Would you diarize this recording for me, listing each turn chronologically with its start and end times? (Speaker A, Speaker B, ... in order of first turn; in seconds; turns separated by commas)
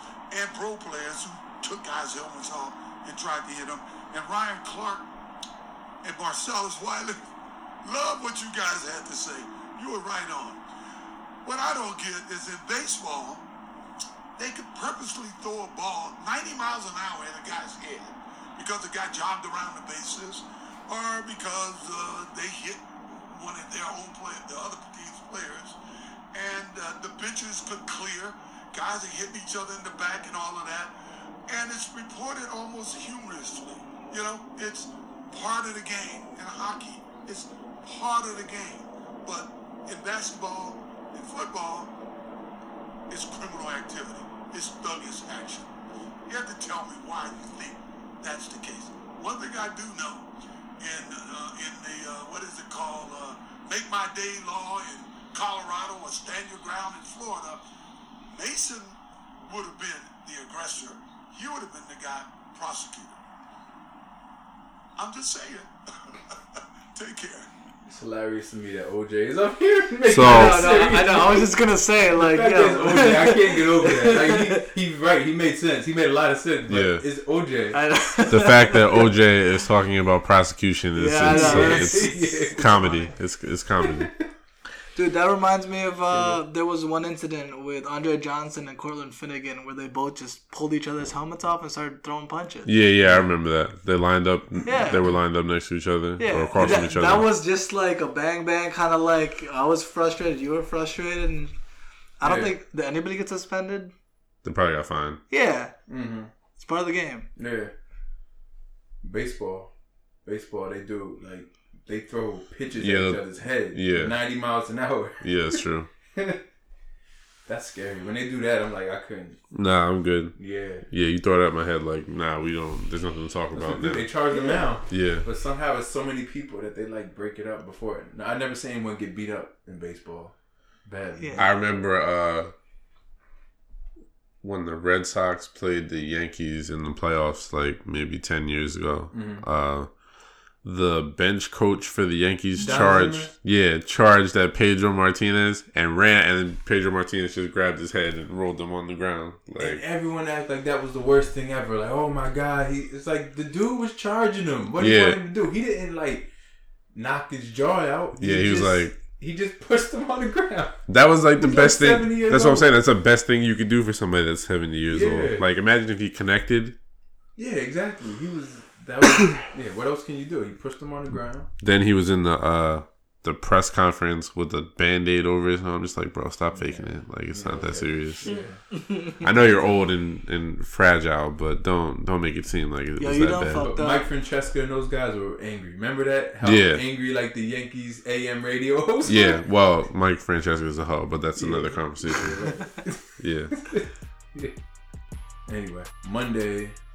Speaker A: 0.3-5.0, Speaker A: 6.0-7.2, Speaker A: 7.8-10.6, Speaker A: 11.4-13.5, Speaker A: 14.4-25.8, Speaker A: 26.3-30.9, Speaker A: 31.5-41.9, Speaker A: 43.1-45.7, Speaker A: 46.3-50.3, Speaker A: 50.8-57.6, Speaker A: 58.3-63.2, Speaker A: 65.0-67.5, Speaker B: 67.9-71.6, Speaker C: 70.0-70.7, Speaker D: 70.2-74.7, Speaker B: 72.1-78.0, Speaker C: 76.7-77.0, Speaker D: 77.7-78.8, Speaker C: 78.3-84.2, Speaker D: 81.0-83.1, Speaker B: 81.3-82.8, Speaker D: 84.9-92.7, Speaker B: 86.1-86.4, Speaker C: 92.7-97.3, Speaker D: 94.7-95.1, Speaker D: 96.2-101.5, Speaker D: 102.2-103.9, Speaker B: 102.2-102.5, Speaker C: 104.4-105.2, Speaker D: 105.3-105.7, Speaker B: 105.9-106.3, Speaker D: 106.6-107.3, Speaker B: 107.4-107.7, Speaker B: 109.0-109.7, Speaker B: 110.2-115.4, Speaker C: 112.8-114.2, Speaker C: 115.2-115.9, Speaker B: 116.1-116.4, Speaker B: 117.5-119.5, Speaker C: 119.5-125.3, Speaker B: 120.3-120.9, Speaker B: 123.5-130.3, Speaker D: 124.3-124.6, Speaker B: 130.9-131.5, Speaker D: 131.2-131.5, Speaker C: 131.4-132.5, Speaker C: 134.4-140.0, Speaker B: 139.1-139.5, Speaker C: 140.6-149.8, Speaker B: 142.6-143.3, Speaker B: 149.6-156.3, Speaker C: 154.8-155.2, Speaker B: 156.9-160.8, Speaker C: 158.2-159.0, Speaker C: 160.9-166.8, Speaker B: 161.4-162.7, Speaker B: 164.9-165.5, Speaker B: 167.4-171.5, Speaker C: 171.6-183.7, Speaker B: 176.5-178.6, Speaker D: 178.2-179.2, Speaker B: 179.4-179.8, Speaker D: 183.0-184.1, Speaker B: 183.6-189.4, Speaker C: 186.4-186.8, Speaker C: 189.1-192.6, Speaker B: 191.4-193.1, Speaker C: 193.2-193.8, Speaker B: 193.6-194.6, Speaker B: 195.5-196.8